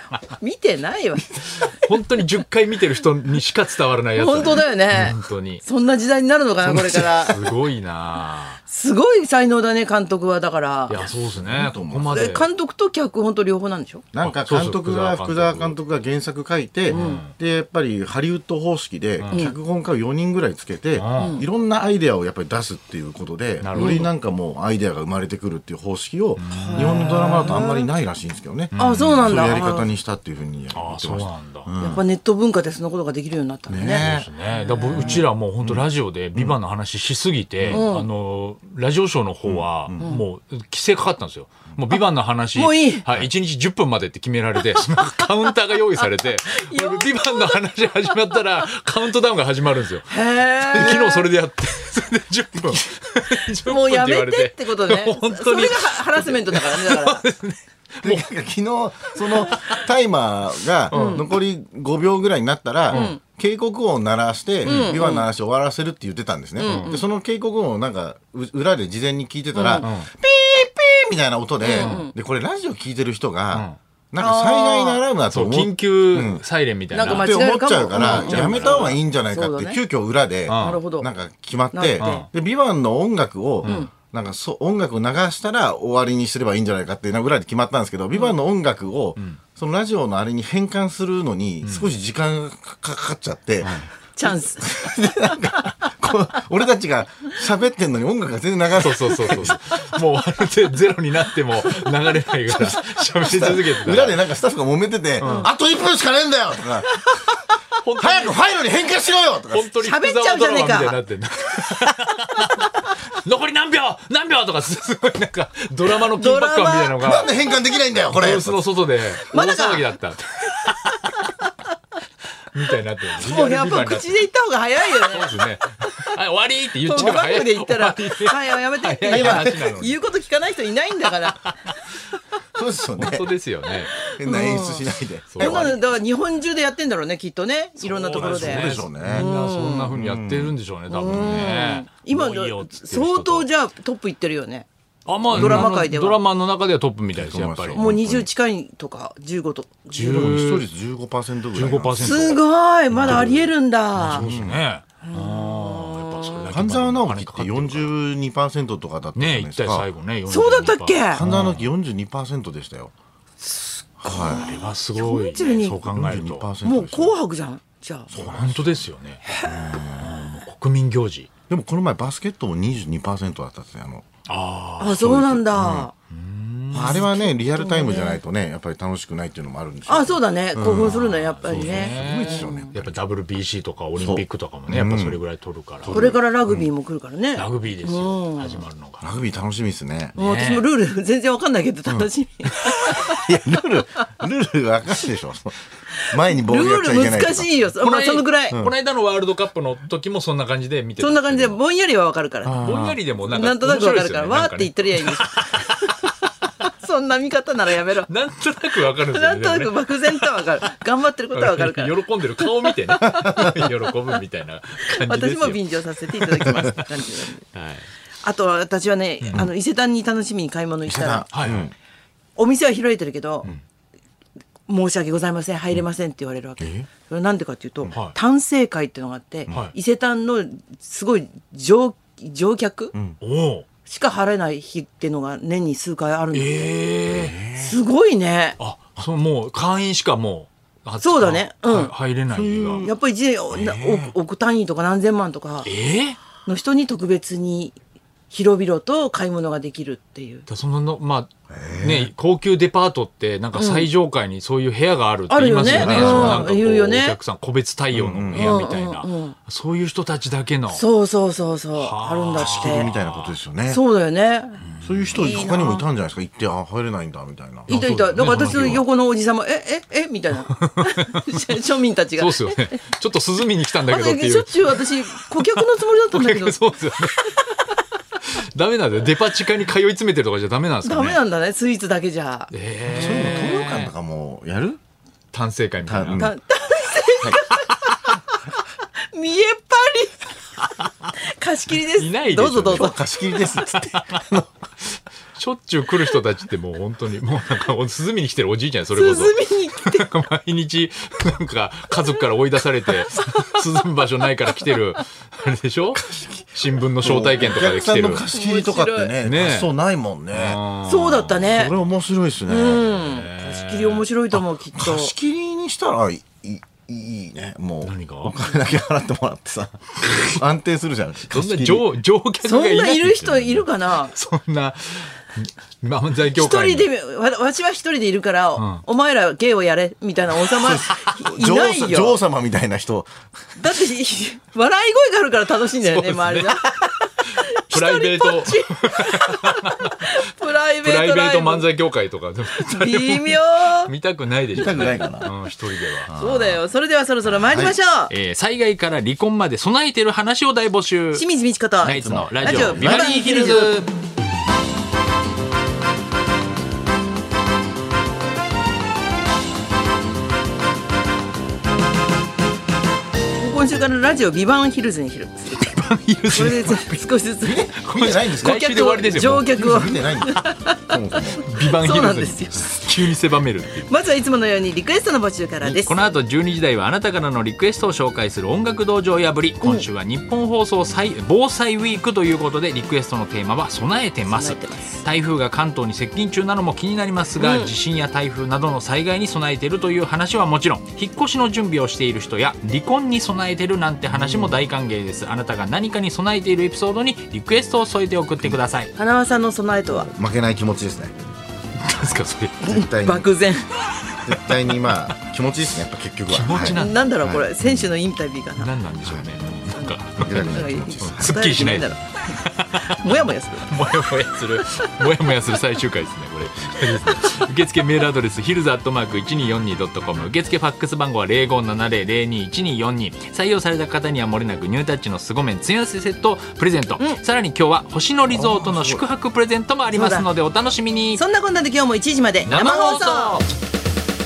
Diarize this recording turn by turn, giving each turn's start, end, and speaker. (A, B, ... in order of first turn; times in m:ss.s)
0:00.3-0:01.7 A
0:01.6-0:05.6 B
0:04.2-0:07.5 A
0:06.6-0:08.6 B
0:08.7-0:11.1 A
0:10.9-0:12.5 B
0:11.0-0:12.2 C
0:12.1-0:14.0 A
0:14.1-0:32.0 C
0:14.2-0:15.8 B
0:16.9-0:17.3 B
0:16.9-0:17.2 A
0:19.2-0:19.5 B
0:21.0-0:21.4 B
0:21.2-0:21.4 A
0:23.6-0:24.1 B
0:23.8-0:24.1 A
0:26.4-0:27.6 B
0:26.5-0:27.9 A
0:28.7-0:29.8 B
0:28.8-0:29.9 A
0:30.7-0:31.7 B
0:31.8-0:35.3 A
0:33.7-0:34.3 C
0:33.8-0:58.3 B
0:34.9-0:36.6 C
0:37.7-0:38.1 A
0:39.4-0:40.1 C
0:42.5-0:43.0 A
0:45.0-0:45.2 A
0:46.0-0:48.4 A
0:50.1-0:51.3 A
0:53.4-0:57.2 A
0:58.0-1:16.4 C
0:59.2-0:59.8 B
1:00.9-1:01.3 B
1:00.9-1:01.2 A
1:02.9-1:03.2 A
1:04.6-1:05.0 B
1:04.6-1:05.3 A
1:06.6-1:07.1 A
1:06.6-1:07.0 B
1:09.5-1:09.9 A
1:09.8-1:10.1 B
1:11.6-1:12.1 A
1:11.8-1:12.0 B
1:13.5-1:13.8 B
1:14.2-1:15.0 A
1:15.3-1:17.3 B
1:16.9-1:19.8 A
1:17.0-1:40.0 C
1:17.9-1:19.0 B
1:20.5-1:20.8 B
1:20.6-1:21.1 A
1:21.7-1:22.3 A
1:22.0-1:22.3 B
1:23.6-1:23.9 B
1:23.6-1:23.9 A
1:31.6-1:31.9 B
1:34.2-1:35.4 A
1:38.8-1:44.2 B
1:42.5-1:47.4 C
1:45.2-1:45.5 B
1:45.2-1:45.5 A
1:47.8-1:48.4 B
1:48.0-1:49.7 C
1:49.5-1:57.4 B
1:49.8-1:51.0 A
1:56.0-1:57.1 A
1:57.0-1:58.6 C
1:58.1-2:01.3 B
1:59.3-1:59.9 A
2:00.6-2:01.5 A
2:02.5-2:04.2 B
2:03.2-2:06.1 A
2:04.8-2:10.0 B
2:06.8-2:11.4 A
2:09.1-2:09.7 C
2:11.3-2:11.8 B
2:12.6-2:13.3 C
2:13.0-2:14.0 B
2:14.0-2:15.8 C
2:14.1-2:19.9 A
2:15.3-2:15.8 B
2:17.8-2:23.5 B
2:18.1-2:19.3 C
2:19.9-2:20.6 C
2:20.9-2:24.7 A
2:21.1-2:21.5 C
2:25.1-2:27.9 B
2:25.3-2:26.2 A
2:25.3-2:25.7 C
2:27.2-2:28.3 C
2:27.7-2:30.3 A
2:29.9-2:30.7 B
2:30.0-2:32.4 C
2:31.5-2:32.4 B
2:32.0-2:34.3 A
2:32.9-2:33.4 C
2:33.0-2:33.4 B
2:34.0-2:37.9 B
2:34.1-2:34.6 C
2:35.0-2:36.5 A
2:36.5-2:39.9 C
2:39.2-2:41.7 B
2:40.3-2:41.2 A
2:41.1-2:42.9 C
2:43.4-2:45.8 A
2:44.0-2:44.7 C
2:44.2-2:46.5 B
2:45.8-2:47.2 C
2:46.6-2:48.1 A
2:48.1-2:50.2 C
2:48.1-2:49.2 B
2:49.2-2:49.8 A
2:49.8-2:51.3 B
2:51.5-2:54.1 C
2:54.3-2:55.1 B
2:54.8-2:55.9 A
2:55.0-2:55.9 C
2:56.1-2:57.1 B
2:56.7-3:02.9 C
2:56.7-2:58.2 A
2:59.9-3:02.7 A
3:00.7-3:06.0 B
3:04.0-3:05.2 C
3:05.8-3:06.7 C
3:05.9-3:08.6 A
3:07.4-3:09.1 B
3:09.0-3:10.2 C
3:10.2-3:10.7 B
3:10.2-3:13.3 A
3:13.0-3:17.6 C
3:16.0-3:18.6 A
3:17.8-3:21.6 B
3:21.0-3:22.6 A
3:22.4-3:23.0 C
3:22.5-3:26.1 B
3:23.2-3:26.1 A
3:26.6-3:28.1 A
3:28.1-3:30.8 B
3:28.9-3:33.1 A
3:31.3-3:37.9 B
3:33.0-3:33.6 C
3:34.8-3:37.4 A
3:38.2-3:41.3 A
3:39.2-3:39.5 B
3:40.9-3:41.7 C
3:41.3-3:41.7 B
3:42.4-3:43.5 A
3:44.7-3:52.9 A
3:46.6-3:46.9 C
3:47.9-3:48.2 B
3:49.5-3:49.7 B
3:53.2-3:53.7 B
3:53.9-3:56.8 A
3:56.3-3:57.4 B
3:57.1-3:57.8 C
3:57.6-3:58.6 A
3:58.6-4:02.9 B
4:01.0-4:01.9 A
4:02.3-4:03.0 C
4:02.8-4:05.7 A
4:03.5-4:04.1 C
4:05.6-4:06.2 B
4:06.4-4:07.8 A
4:08.3-4:10.5 A
4:10.5-4:20.8 B
4:11.5-4:12.1 C
4:13.6-4:13.9 A
4:15.3-4:17.2 A
4:15.6-4:16.5 C
4:17.9-4:18.6 C
4:18.3-4:19.4 A
4:20.7-4:22.9 A
4:21.8-4:23.4 B
4:22.4-4:23.8 C
4:23.7-4:24.6 A
4:24.7-4:25.2 B
4:24.8-4:28.8 C
4:25.2-4:25.8 A
4:27.7-4:32.8 A
4:27.7-4:28.8 B
4:30.6-4:31.3 B
4:32.2-4:37.6 B
4:33.9-4:37.6 A
4:38.2-4:41.2 B
4:40.8-4:42.5 A
4:42.5-4:43.9 B
4:42.9-4:44.8 C
4:45.3-4:46.3 B
4:45.9-4:46.4 C
4:46.2-4:48.2 A
4:49.1-4:53.0 A
4:51.9-4:54.4 B
4:52.7-4:54.5 C
4:55.4-5:06.0 B
4:58.9-5:00.0 A
5:05.9-5:10.6 C
5:06.6-5:08.3 B
5:08.3-5:09.2 A
5:09.2-5:09.7 B
5:10.3-5:11.6 B
5:10.8-5:11.8 A
5:11.5-5:13.1 C
5:12.5-5:15.1 A
5:13.0-5:14.1 B
5:14.8-5:21.9 C
5:17.8-5:18.4 B
5:21.3-5:26.9 B
5:22.4-5:24.2 A
5:26.3-5:32.2 A
5:28.6-5:28.8 B
5:30.6-5:33.2 C
5:33.6-5:41.7 A
5:35.8-5:40.2 B
5:40.8-5:46.1 B
5:42.5-5:43.9 A
5:44.5-5:45.3 C
5:46.0-5:46.6 C
5:46.1-5:48.1 A
5:48.1-5:51.3 B
5:51.1-5:53.7 A
5:51.8-5:53.9 B
5:52.0-5:53.6 C
6:03.4-6:05.7 A
6:05.5-6:06.9 B
6:06.3-6:07.7 A
6:07.4-6:11.4 C
6:07.8-6:09.5 B
6:08.4-6:10.9 A
6:11.4-6:13.9 B
6:11.6-6:12.9 A
6:13.9-6:16.0 A
6:15.8-6:38.9 B
6:24.3-6:25.0 A
6:27.4-6:27.7 A
6:34.1-6:34.6 C
6:39.0-6:40.1 A
6:39.9-6:41.2 C
6:41.8-6:42.7 B
6:42.6-6:43.3 C
6:42.7-6:43.7 A
6:44.1-6:44.9 B
6:44.2-6:47.5 C
6:46.3-6:47.1 B
6:46.5-6:48.7 A
6:47.6-6:47.9 B
6:48.6-7:11.2 B
6:49.0-6:49.3 C
6:49.7-6:54.0 A
6:50.2-6:51.4 C
7:08.3-7:09.0 C
7:09.9-7:10.3 A
7:11.2-7:13.4 A
7:12.4-7:13.5 B